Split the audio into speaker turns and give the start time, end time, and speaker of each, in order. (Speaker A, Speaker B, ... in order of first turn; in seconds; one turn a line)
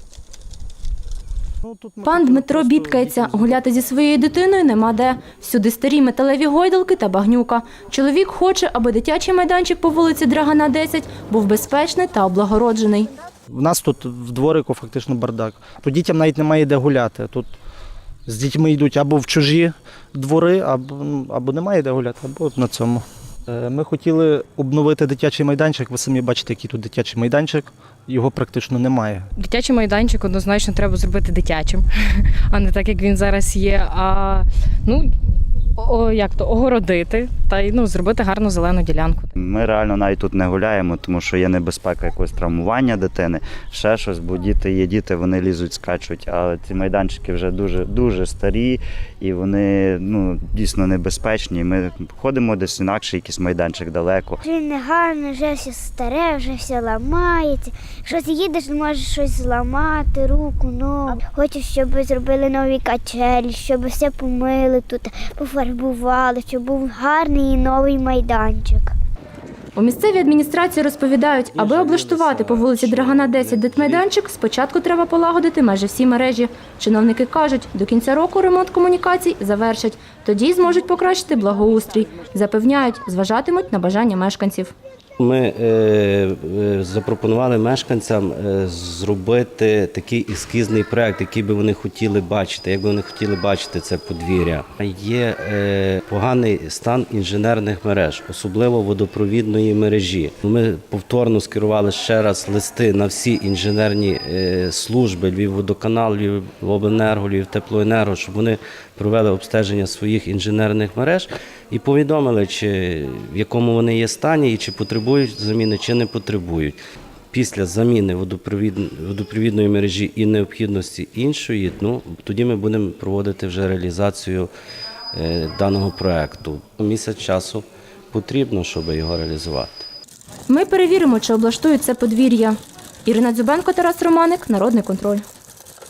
Speaker A: 1.6-3.6
Speaker B: 2.0-13.1
Speaker A: 13.5-17.5
Speaker A: 18.2-29.3
Speaker C: 29.4-31.9
Speaker C: 32.5-35.1
Speaker C: 35.8-39.3
Speaker D: 39.4-54.4
Speaker E: 54.6-68.8
Speaker B: 69.7-84.7
Speaker F: 71.5-74.0
Speaker F: 85.2-116.8
Speaker F: 117.3-124.5
Speaker F: 125.1-129.8
Speaker B: 130.5-135.2